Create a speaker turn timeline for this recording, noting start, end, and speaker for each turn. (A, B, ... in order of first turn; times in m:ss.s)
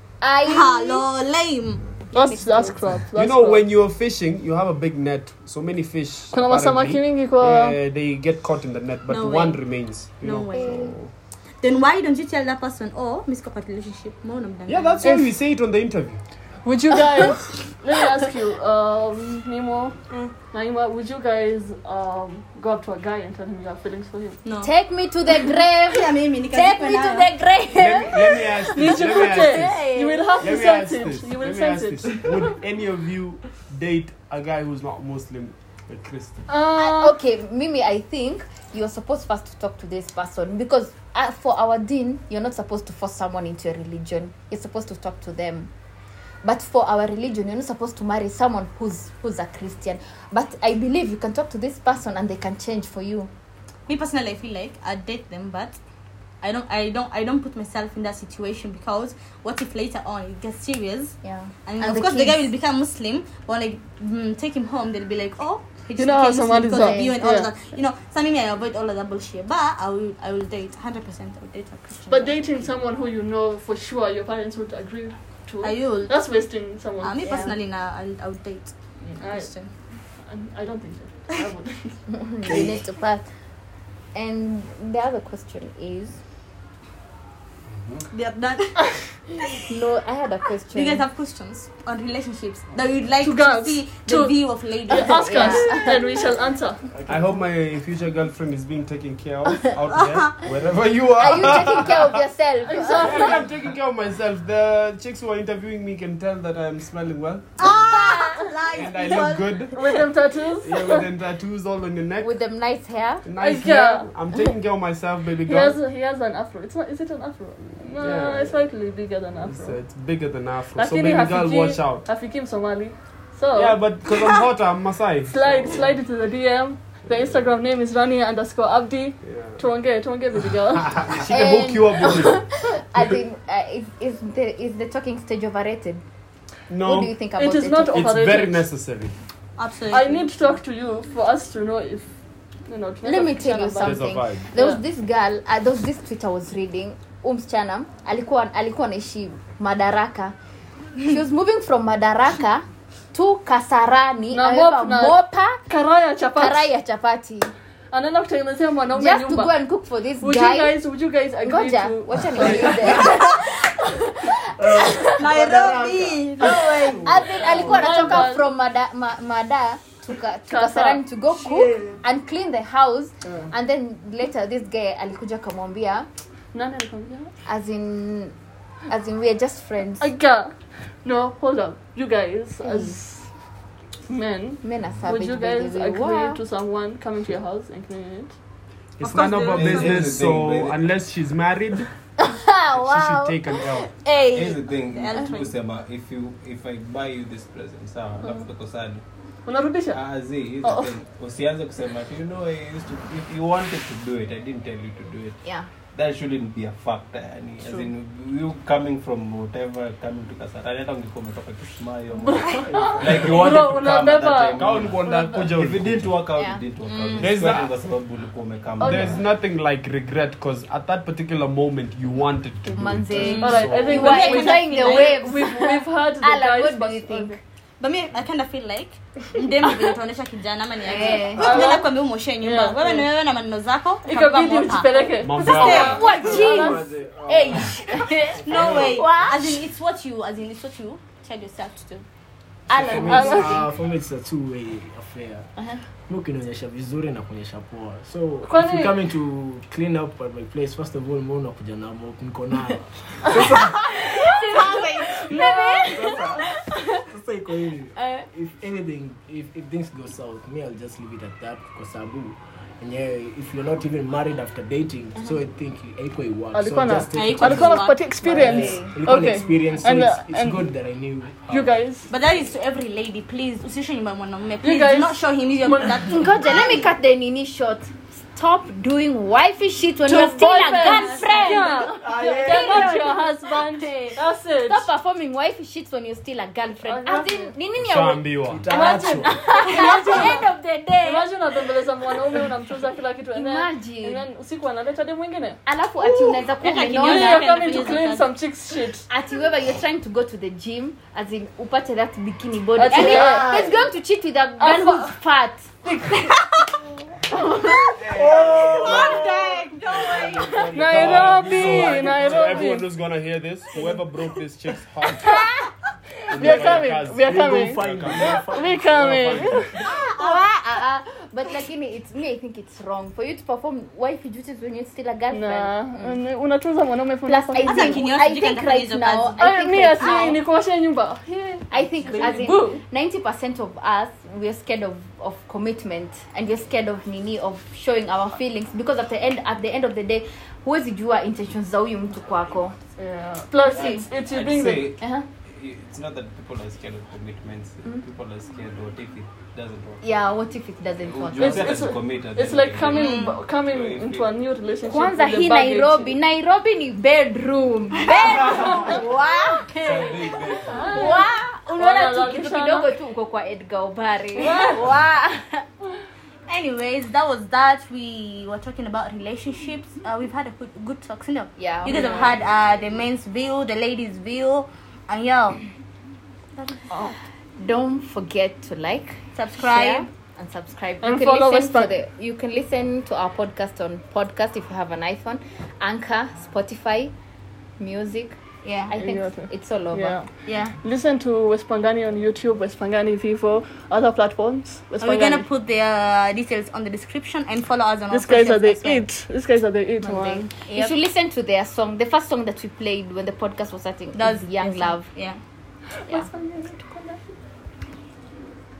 0:00.2-0:01.0 A
0:00.4-0:02.8 B
0:02.1-0:03.6 C
0:03.1-0:11.1 D
0:06.3-0:07.8 C
0:09.1-0:09.6 B
0:10.2-0:10.9 B
0:10.5-0:10.9 A
0:11.6-0:15.0 B
0:14.7-0:16.2 D
0:15.0-0:15.3 C
0:16.6-0:20.0 C
0:20.5-0:24.4 C
0:24.4-0:24.7 B
0:24.6-0:30.3 A
0:25.9-0:27.3 B
0:27.8-0:29.8 D
0:28.7-0:32.5 C
0:30.4-0:36.4 D
0:36.5-0:37.2 C
0:36.8-0:45.7 A
0:46.4-0:53.3 A
0:53.9-0:55.8 B
0:56.4-1:12.6 B
1:01.2-1:02.5 A
1:06.0-1:07.5 C
1:06.7-1:07.2 A
1:12.1-1:17.3 C
1:15.6-1:16.4 B
1:17.0-1:19.7 B
1:17.2-1:17.5 A
1:19.1-1:19.6 C
1:20.2-1:22.0 C
1:22.1-1:23.2 A
1:22.4-1:22.8 E
1:24.1-1:26.2 A
1:28.1-1:28.8 B
1:29.6-1:31.0 A
1:30.7-1:35.9 B
1:33.2-1:34.3 C
1:34.9-1:36.8 C
1:34.9-1:36.0 A
1:36.9-1:37.3 E
1:37.1-1:42.2 D
1:39.9-1:40.3 B
1:41.2-1:43.4 A
1:42.6-1:43.5 C
1:43.0-1:47.7 D
1:47.6-1:49.8 B
1:48.7-1:49.8 D
1:49.7-1:51.0 C
1:50.6-1:52.4 D
1:52.2-1:53.2 A
1:53.2-1:55.8 D
1:53.4-1:54.1 C
1:55.5-1:59.8 C
1:58.0-1:58.7 D
1:59.3-2:02.0 D
2:00.7-2:03.8 C
2:03.5-2:05.9 D
2:05.3-2:11.1 C
2:07.1-2:07.5 D
2:09.2-2:09.6 D
2:10.8-2:12.4 D
2:11.2-2:16.0 A
2:16.7-2:17.1 D
2:16.8-2:18.0 A
2:17.3-2:18.6 C
2:17.9-2:19.2 D
2:19.6-2:20.3 B
2:19.9-2:22.1 C
2:22.7-2:24.8 C
2:23.0-2:30.3 A
2:23.8-2:24.4 D
2:31.0-2:35.6 A
2:34.3-2:36.7 C
2:36.3-2:37.5 A
2:37.9-2:39.5 C
2:38.9-2:40.8 A
2:40.2-2:43.1 C
2:41.4-2:45.3 A
2:42.3-2:43.2 E
2:44.6-2:48.2 E
2:45.2-2:46.8 B
2:46.5-2:56.1 A
2:47.5-2:48.5 C
2:50.5-2:51.0 C
2:51.3-2:52.0 E
2:56.5-2:57.3 C
2:57.4-2:58.3 A
2:58.9-3:00.1 A
3:00.0-3:03.3 C
3:02.6-3:03.0 A
3:04.1-3:08.4 C
3:04.6-3:06.4 A
3:09.0-3:11.9 D
3:09.0-3:10.1 B
3:09.4-3:10.9 F
3:12.2-3:14.6 A
3:12.7-3:13.9 D
3:14.3-3:19.0 F
3:14.7-3:15.5 B
3:19.4-3:20.9 C
3:19.9-3:25.4 F
3:25.4-3:25.7 A
3:25.9-3:39.2 F
3:32.6-3:35.5 C
3:32.7-3:33.2 E
3:34.6-3:36.2 D
3:36.8-3:37.5 B
3:37.2-3:37.7 D
3:38.8-3:39.2 C
3:38.8-3:44.2 D
3:42.6-3:47.4 A
3:43.2-3:45.2 B
3:43.3-3:47.4 C
3:47.8-3:56.1 B
3:50.8-3:51.7 A
3:51.3-3:53.1 C
3:54.0-3:56.8 C
3:55.2-3:56.1 D
3:55.4-3:59.6 A
3:56.0-3:59.1 E
3:58.4-4:02.0 B
4:02.7-4:03.7 A
4:02.7-4:05.5 E
4:03.0-4:03.6 C
4:06.1-4:14.8 E
4:08.4-4:09.0 C
4:13.8-4:17.0 A
4:15.2-4:15.9 C
4:15.9-4:31.7 E
4:18.0-4:18.2 A
4:26.5-4:30.7 C
4:27.1-4:28.1 B
4:28.2-4:29.0 A
4:31.5-4:32.1 C
4:32.1-4:36.9 B
4:34.6-4:36.1 C
4:36.1-4:48.4 A
4:40.0-4:44.9 C
4:41.8-4:43.0 E
4:46.8-4:47.5 C
4:47.8-4:48.7 D
4:48.5-4:49.6 E
4:48.7-4:56.2 C
4:49.2-4:51.3 A
4:53.3-4:54.2 A
4:55.6-4:58.0 A
4:56.6-4:58.3 B
4:56.9-4:59.1 C
4:59.1-5:06.4 A
5:02.8-5:03.8 C
5:02.9-5:03.8 E
5:04.6-5:05.1 C
5:05.9-5:06.3 C
5:07.3-5:07.9 A
5:08.0-5:12.8 E
5:08.0-5:10.6 B
5:08.7-5:09.3 A
5:10.7-5:12.9 C
5:10.8-5:15.5 D
5:15.2-5:15.5 A
5:16.3-5:18.4 D
5:16.3-5:19.7 C
5:16.4-5:19.7 E
5:19.2-5:19.6 D
5:19.8-5:26.2 A
5:20.2-5:20.5 B
5:25.3-5:28.1 C
5:27.2-5:30.4 A
5:27.6-5:29.4 B
5:29.4-5:32.8 C
5:30.0-5:30.4 B
5:31.7-5:42.7 A
5:43.0-5:44.9 C
5:43.7-5:44.0 A
5:43.7-5:50.2 F
5:45.0-5:45.2 A
5:50.0-5:51.9 A
5:51.0-5:54.4 F
5:51.4-5:56.1 C
5:52.9-5:53.4 B
5:54.8-6:00.2 A
5:58.0-5:59.7 B
5:58.5-5:59.0 C
5:59.8-6:01.0 F
6:00.7-6:01.2 C
6:00.9-6:05.6 A
6:01.8-6:02.9 C
6:04.4-6:04.8 C
6:06.5-6:15.6 B
6:11.6-6:12.3 A
6:11.9-6:12.3 C
6:16.9-6:17.2 C
6:17.6-6:27.1 A
6:19.4-6:20.1 B
6:21.0-6:22.0 C
6:27.8-6:30.2 A
6:29.0-6:30.3 C
6:30.4-6:30.7 B
6:30.8-6:35.4 C
6:35.0-6:39.1 B
6:38.1-6:40.5 C
6:40.0-6:45.1 A
6:40.7-6:41.0 B
6:44.1-6:45.4 B
6:45.9-6:47.3 C